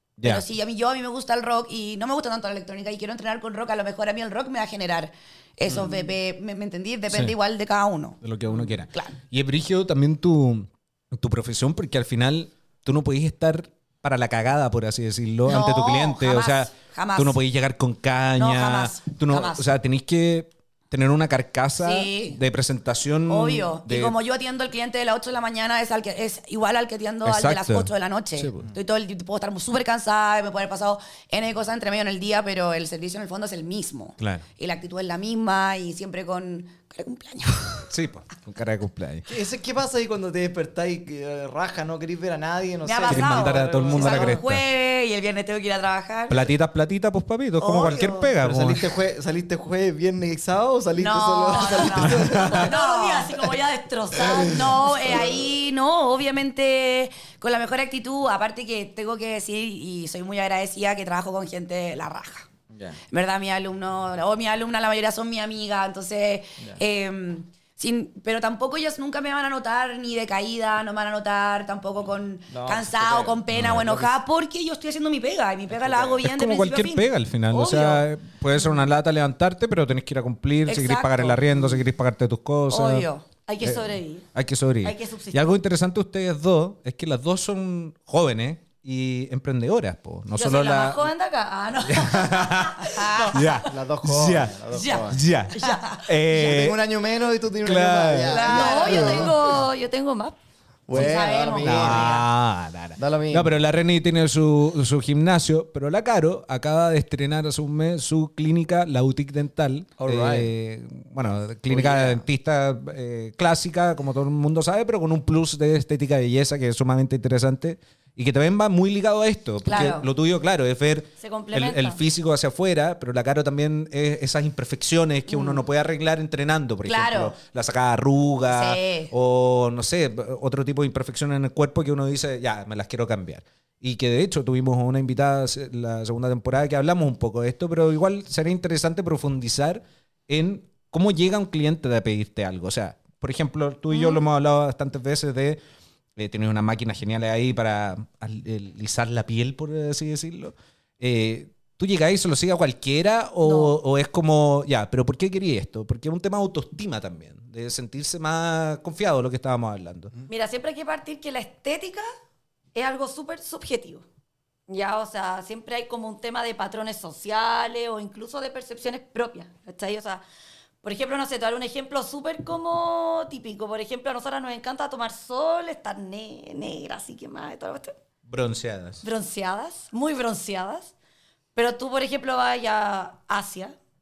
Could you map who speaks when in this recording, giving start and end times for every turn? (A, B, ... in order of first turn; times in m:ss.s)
0:00.2-0:00.4 A
0:00.2-0:09.2 B
0:07.1-0:07.4 A
0:08.2-0:24.2 A
0:15.5-0:17.4 B
0:18.4-0:19.8 B
0:21.8-0:22.4 B
0:23.3-0:37.9 B
0:27.2-0:28.7 A
0:34.2-0:34.4 A
0:37.9-0:39.3 A
0:39.3-0:44.4 C
0:42.8-0:46.5 B
0:43.1-0:44.6 A
0:46.3-0:48.8 A
0:47.6-0:48.3 B
0:48.4-0:52.7 C
0:51.0-0:53.4 B
0:51.8-0:55.2 D
0:52.2-0:52.6 A
0:54.2-0:55.5 C
0:54.2-1:02.5 B
1:02.7-1:03.0 C
1:03.1-1:18.1 B
1:12.5-1:14.2 C
1:13.5-1:13.8 A
1:15.7-1:16.2 C
1:16.2-1:23.1 A
1:20.7-1:21.8 B
1:22.7-1:23.2 B
1:23.5-1:24.3 D
1:23.6-1:31.1 A
1:24.8-1:25.5 D
1:30.3-1:33.7 D
1:31.8-1:36.8 A
1:32.8-1:33.5 B
1:33.6-1:35.2 C
1:34.7-1:35.8 D
1:35.6-1:36.0 B
1:36.3-1:39.4 C
1:37.6-1:38.5 A
1:38.2-1:39.4 B
1:38.5-1:40.4 D
1:40.9-1:42.2 C
1:40.9-1:42.3 B
1:40.9-2:25.6 A
1:43.0-1:43.5 C
1:50.0-1:50.5 C
1:51.7-1:52.3 C
1:59.6-2:00.1 B
2:01.2-2:02.0 D
2:05.3-2:05.6 B
2:06.8-2:07.4 B
2:08.5-2:09.1 B
2:23.9-2:24.2 D
2:26.2-2:40.1 A
2:33.4-2:33.8 D
2:40.3-2:42.0 D
2:42.8-2:44.0 D
2:44.7-2:50.2 D
2:50.8-2:57.9 D
2:58.3-2:59.0 A
2:59.0-3:00.9 D
3:01.6-3:03.7 D